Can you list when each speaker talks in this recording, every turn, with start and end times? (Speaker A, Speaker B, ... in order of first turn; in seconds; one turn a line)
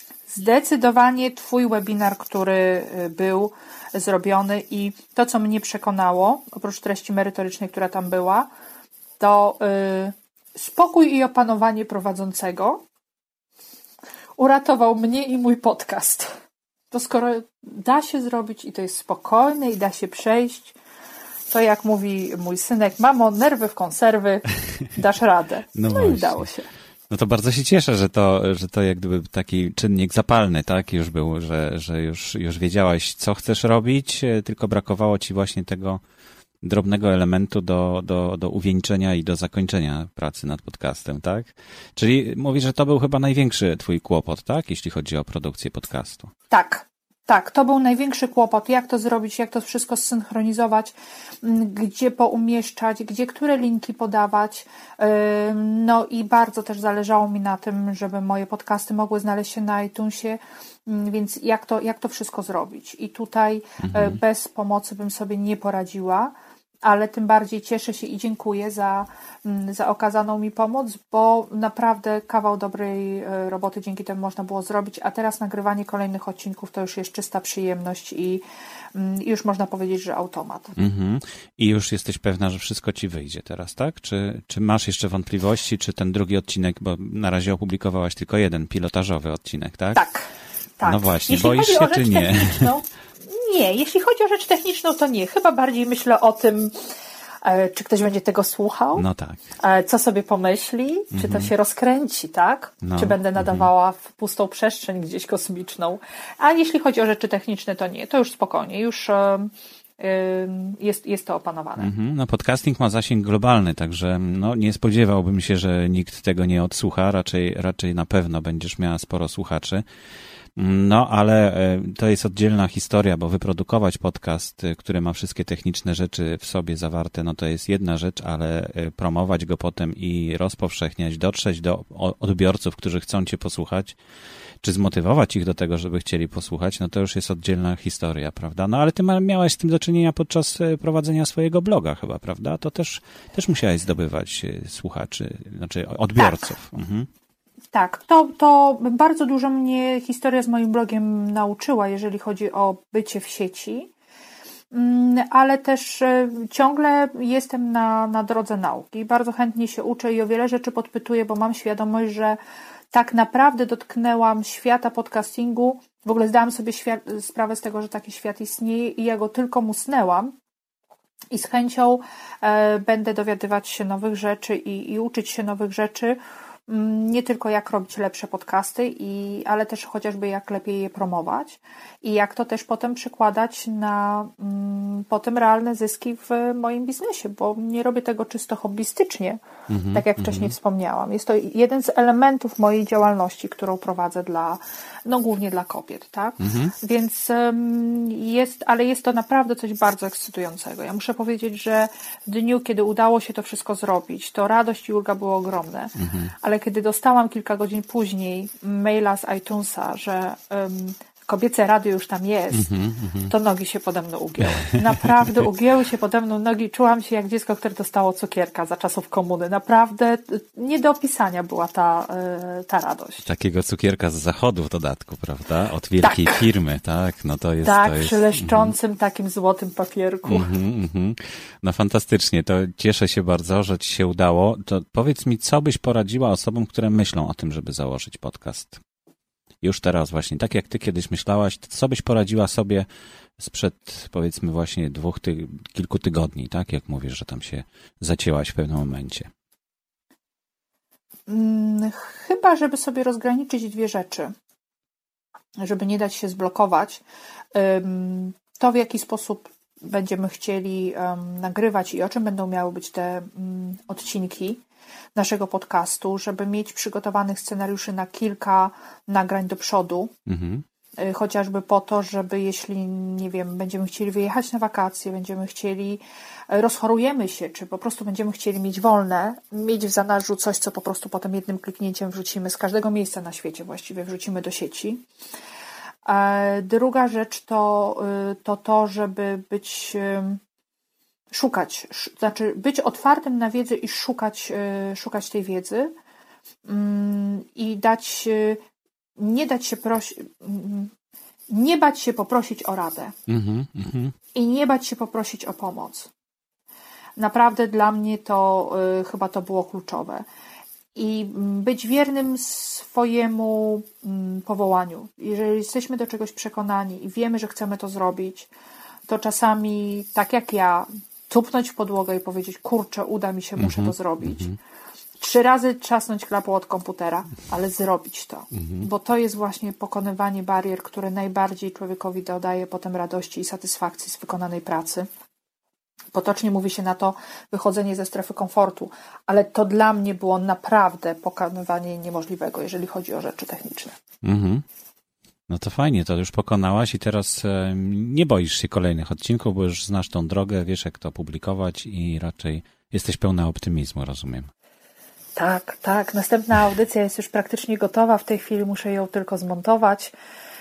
Speaker A: 0.3-8.5
Speaker A: 9.2-12.8
Speaker A: 14.4-16.3
Speaker A: 16.9-20.8
Speaker A: 21.5-26.7
Speaker B: 25.8-26.4
Speaker B: 27.1-36.0
Speaker B: 36.6-46.3
Speaker A: 46.5-80.8
Speaker B: 63.8-64.2
Speaker B: 80.8-90.0
Speaker A: 90.0-96.8
Speaker B: 90.8-92.7
Speaker A: 97.4-99.0
Speaker B: 99.0-99.4
Speaker A: 99.6-111.9
Speaker B: 101.1-101.5
Speaker B: 102.8-103.7
Speaker B: 111.8-119.8
Speaker B: 120.6-134.0
Speaker B: 134.6-147.1
Speaker A: 146.2-146.5
Speaker A: 147.7-153.9
Speaker A: 154.7-162.4
Speaker A: 162.9-170.3
Speaker A: 171.3-189.4
Speaker B: 189.7-190.6
Speaker A: 189.9-212.7
Speaker B: 196.4-196.7
Speaker B: 206.0-206.3
Speaker B: 212.5-213.3
Speaker A: 213.2-223.3
Speaker B: 223.2-228.7
Speaker A: 226.0-226.4
Speaker A: 227.6-230.5
Speaker B: 230.3-238.8
Speaker B: 239.6-242.9
Speaker B: 243.4-249.3
Speaker A: 251.3-254.3
Speaker A: 255.6-257.0
Speaker A: 257.5-264.6
Speaker A: 265.1-270.1
Speaker B: 270.3-270.6
Speaker A: 271.0-285.1
Speaker A: 286.1-290.4
Speaker A: 291.3-295.9
Speaker A: 296.7-298.6
Speaker A: 299.2-300.9
Speaker A: 301.5-303.1
Speaker B: 303.3-304.1
Speaker A: 304.4-306.1
Speaker A: 307.2-310.3
Speaker A: 310.9-318.5
Speaker A: 319.1-324.5
Speaker B: 323.6-324.6
Speaker A: 325.2-335.1
Speaker B: 328.5-328.9
Speaker A: 336.1-344.0
Speaker B: 344.2-344.6
Speaker B: 345.5-354.5
Speaker A: 355.4-360.1